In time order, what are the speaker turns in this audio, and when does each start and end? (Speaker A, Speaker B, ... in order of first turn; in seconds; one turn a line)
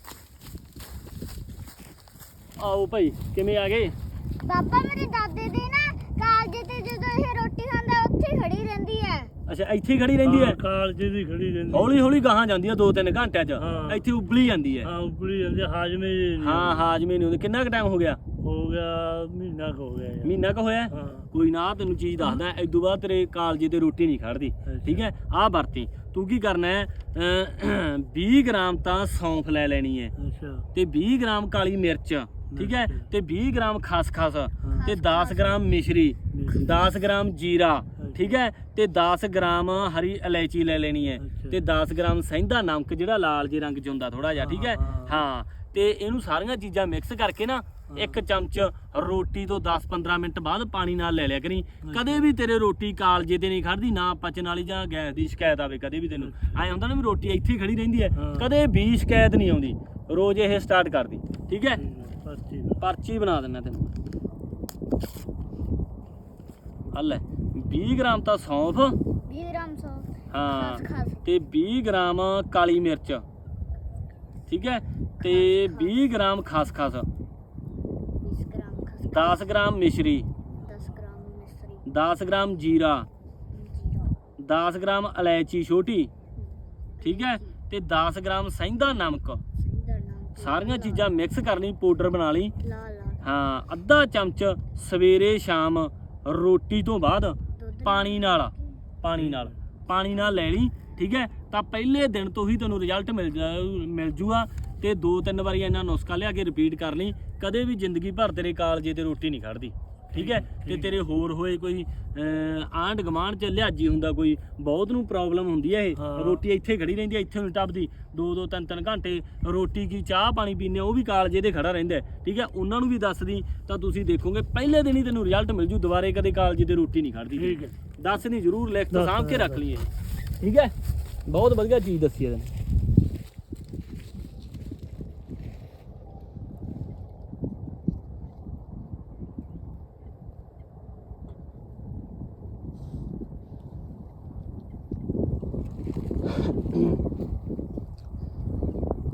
Speaker A: 2.6-3.9
Speaker B: 4.4-9.3
Speaker A: 9.5-10.6
Speaker C: 10.2-11.9
Speaker A: 11.7-14.9
Speaker C: 13.6-14.0
Speaker C: 14.8-16.8
Speaker A: 16.4-18.2
Speaker C: 18.4-20.3
Speaker A: 20.2-30.1
Speaker C: 20.9-21.2
Speaker C: 24.6-25.1
Speaker C: 30.1-30.6
Speaker A: 30.7-61.8
Speaker C: 32.5-33.1
Speaker B: 34.8-35.8
Speaker C: 36.3-36.8
Speaker C: 38.0-38.3
Speaker C: 41.2-41.6
Speaker C: 44.4-45.2
Speaker C: 47.9-48.2
Speaker C: 51.9-52.2
Speaker C: 56.1-56.7
Speaker C: 58.1-58.5
Speaker C: 61.8-62.8
Speaker A: 62.8-63.9
Speaker A: 66.9-69.0
Speaker B: 69.3-71.2
Speaker A: 70.3-73.2
Speaker A: 74.5-77.1
Speaker B: 75.2-76.0
Speaker B: 78.2-79.5
Speaker A: 79.1-80.3
Speaker B: 80.6-81.8
Speaker A: 81.8-83.1
Speaker B: 83.5-84.2
Speaker A: 84.4-86.1
Speaker B: 86.4-87.6
Speaker A: 87.0-89.4
Speaker B: 89.5-91.1
Speaker A: 90.4-92.5
Speaker B: 92.6-93.2
Speaker A: 93.2-130.7
Speaker B: 97.5-98.8
Speaker C: 99.2-99.5
Speaker C: 110.1-111.0
Speaker C: 116.0-116.4
Speaker C: 127.4-127.7
Speaker C: 128.9-129.7
Speaker A: 131.3-132.5
Speaker A: 146.3-147.0